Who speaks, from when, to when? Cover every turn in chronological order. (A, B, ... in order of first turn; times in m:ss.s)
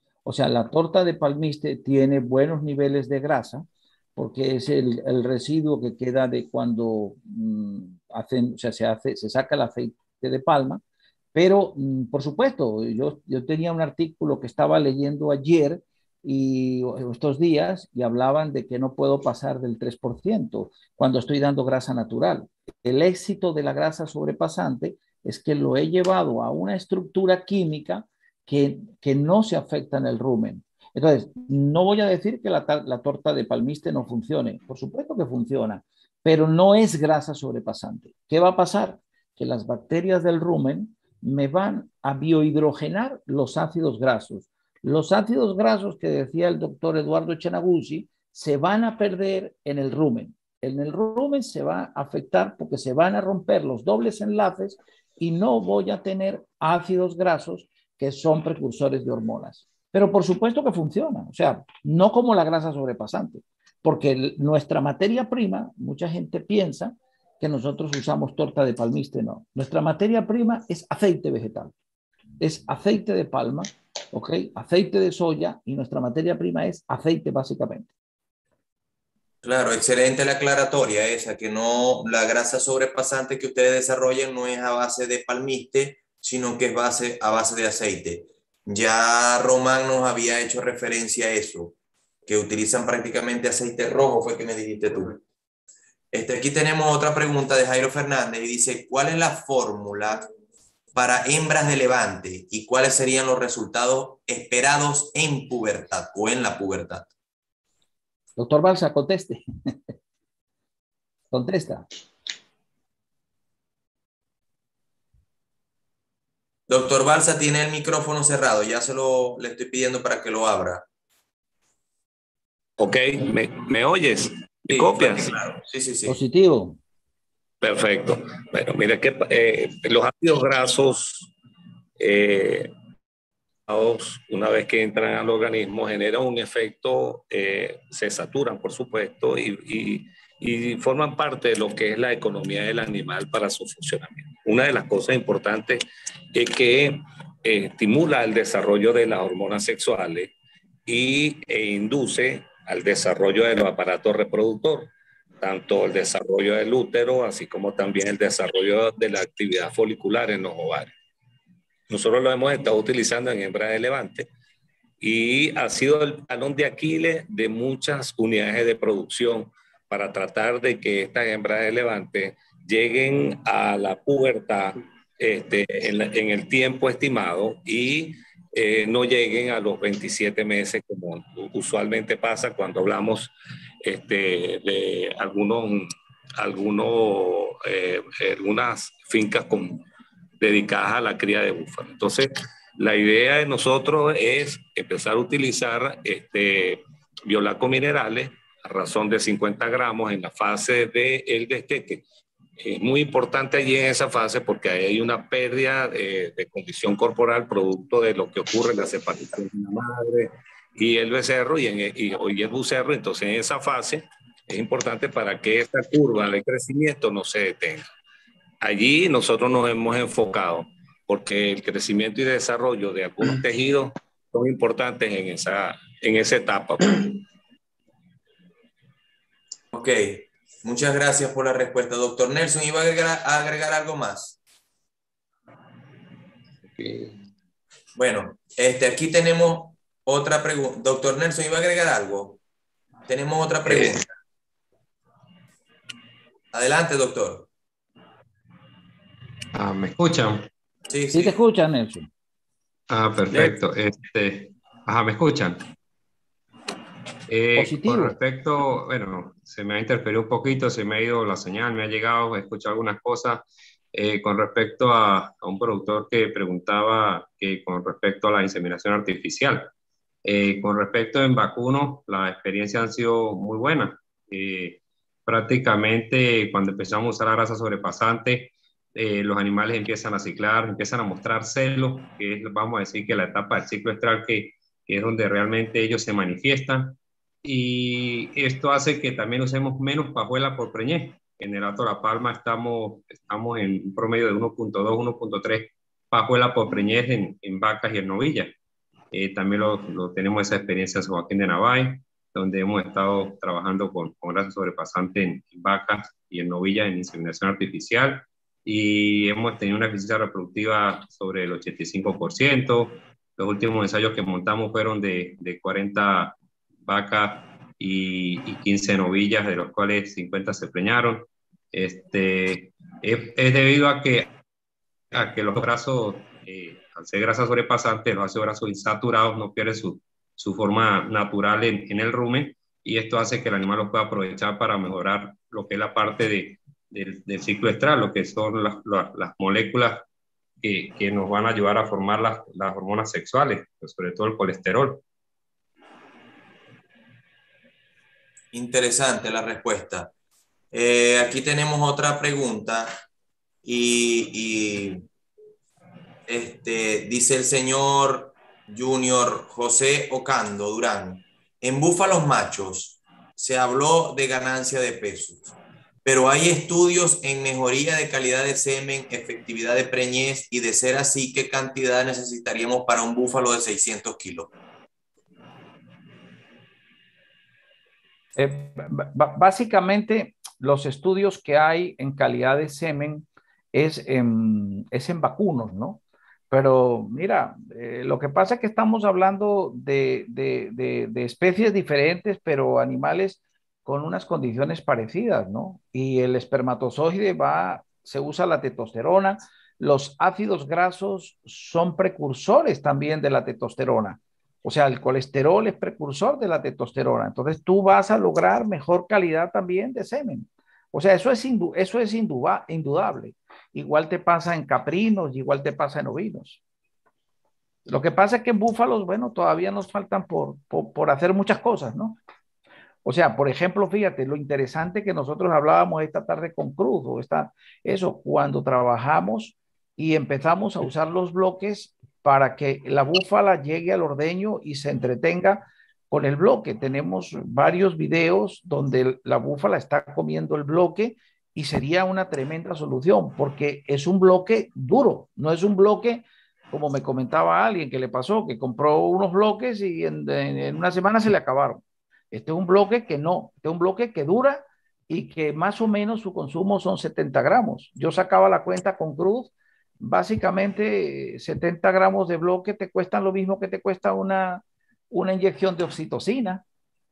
0:00.2-0:10.8 A
0:11.3-1:11.7 A
1:12.4-1:17.9 A
1:19.4-1:31.7 B
1:32.2-1:35.2 B
1:36.1-1:40.3 B
1:40.9-1:47.1 B
1:48.4-1:49.9 A
1:51.3-1:51.8 A
1:56.7-2:00.8 B
2:02.8-2:05.3 C
2:04.7-2:06.2 B
2:06.0-2:06.8 A
2:07.6-2:11.3 C
2:12.0-2:12.7 C
2:13.7-2:30.3 C
2:30.8-2:40.9 C
2:41.9-2:44.3 C
2:45.0-3:03.3 C
3:03.8-3:09.8 C
3:10.4-3:22.0 C
3:22.6-3:37.8 C
3:38.6-3:47.2 C
3:49.7-3:54.4 B
3:57.9-4:02.4 B
4:03.1-4:04.0 B
4:06.5-4:07.5 B
4:09.5-4:10.5 D
4:10.9-4:11.3 B
4:11.1-4:12.1 A
4:12.9-4:15.6 D
4:17.3-4:29.7 D
4:17.5-4:18.2 A
4:30.2-4:58.5 D
4:59.1-5:24.3 D
5:25.1-5:40.0 D
5:40.6-5:45.0 D
5:48.5-5:50.1 B
5:50.7-5:53.0 B
5:53.6-5:55.0 B
5:56.3-6:05.5 B
6:06.0-6:14.5 B
6:18.4-6:56.6 A
6:57.9-7:02.2 A
7:03.0-7:46.6 A